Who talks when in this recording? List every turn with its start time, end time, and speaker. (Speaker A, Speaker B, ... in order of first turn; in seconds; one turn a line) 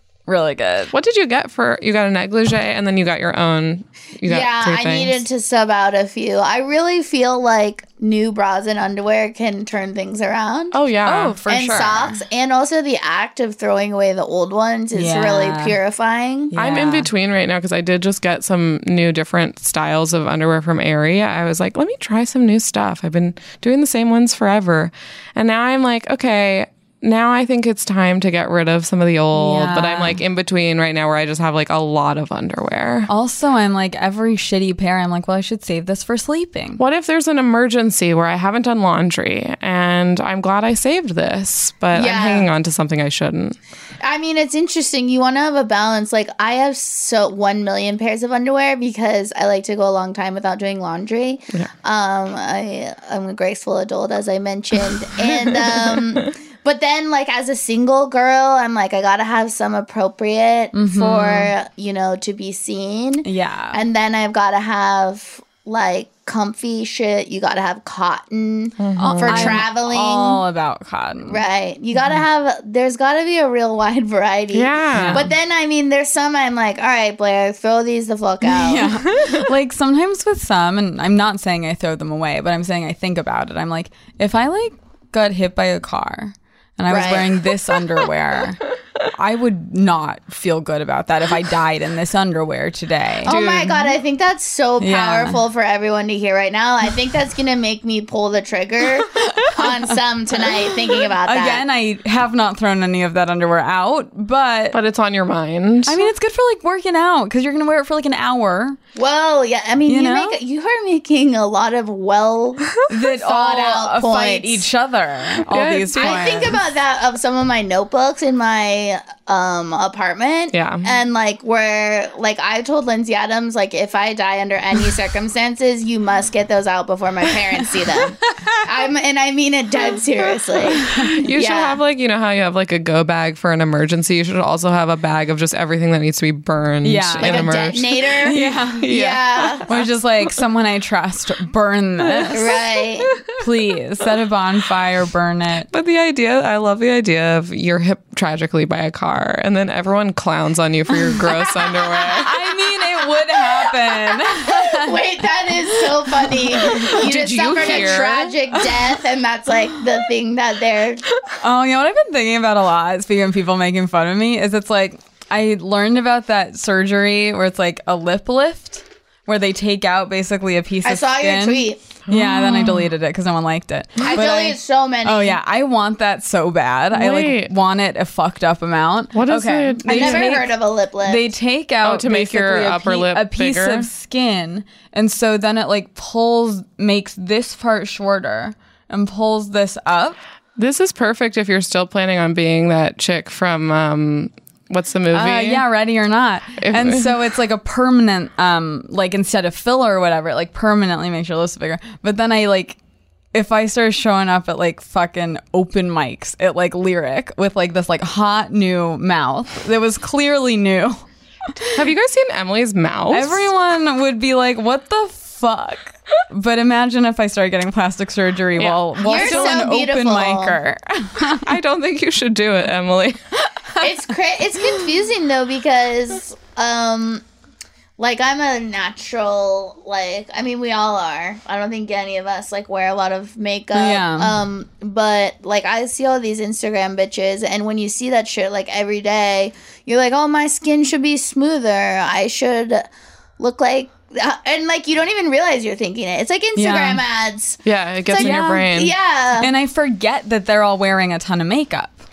Speaker A: 0.3-0.9
Speaker B: 0.9-5.2
Speaker C: 4.3-10.8
Speaker B: 10.7-11.4
Speaker A: 11.1-12.2
Speaker C: 11.5-16.5
Speaker A: 14.9-15.8
Speaker A: 16.5-17.1
Speaker B: 16.6-33.1
Speaker A: 29.3-30.2
Speaker A: 33.1-36.8
Speaker B: 36.8-43.6
Speaker C: 41.9-42.5
Speaker C: 44.0-70.4
Speaker B: 55.2-56.3
Speaker A: 60.7-61.5
Speaker A: 63.2-63.8
Speaker B: 68.8-69.6
Speaker A: 69.0-71.4
Speaker C: 71.2-79.0
Speaker B: 74.5-75.3
Speaker A: 74.9-75.3
Speaker A: 78.4-93.3
Speaker C: 86.9-87.5
Speaker B: 93.2-93.9
Speaker C: 93.3-101.6
Speaker A: 94.8-95.4
Speaker A: 101.2-104.8
Speaker B: 104.7-106.1
Speaker A: 105.9-108.8
Speaker C: 109.0-114.7
Speaker A: 109.9-110.4
Speaker A: 112.9-116.6
Speaker B: 115.5-116.4
Speaker C: 116.0-131.8
Speaker B: 120.5-120.9
Speaker A: 127.8-128.6
Speaker B: 130.7-139.9
Speaker A: 130.7-131.2
Speaker A: 136.8-137.7
Speaker C: 137.2-139.7
Speaker A: 138.2-138.8
Speaker A: 139.7-142.5
Speaker B: 142.1-143.3
Speaker C: 142.3-143.1
Speaker A: 143.4-145.7
Speaker B: 145.7-152.3
Speaker A: 152.1-157.0
Speaker C: 153.4-161.0
Speaker B: 156.8-158.3
Speaker A: 161.4-190.2
Speaker C: 170.8-171.8
Speaker B: 172.1-172.9
Speaker C: 174.0-175.4
Speaker B: 176.9-177.5
Speaker B: 179.1-180.3
Speaker C: 179.9-181.3
Speaker B: 181.8-183.9
Speaker B: 190.6-195.6
Speaker A: 195.1-202.8
Speaker B: 196.6-197.1
Speaker A: 203.3-211.8
Speaker B: 211.7-213.5
Speaker A: 213.1-221.4
Speaker B: 218.6-219.6
Speaker C: 219.0-220.6
Speaker B: 221.3-223.2
Speaker C: 223.8-227.2
Speaker C: 228.0-242.9
Speaker A: 233.8-234.3
Speaker C: 243.4-249.5
Speaker A: 246.6-247.0
Speaker B: 247.7-248.9
Speaker A: 248.2-248.7
Speaker A: 249.4-252.0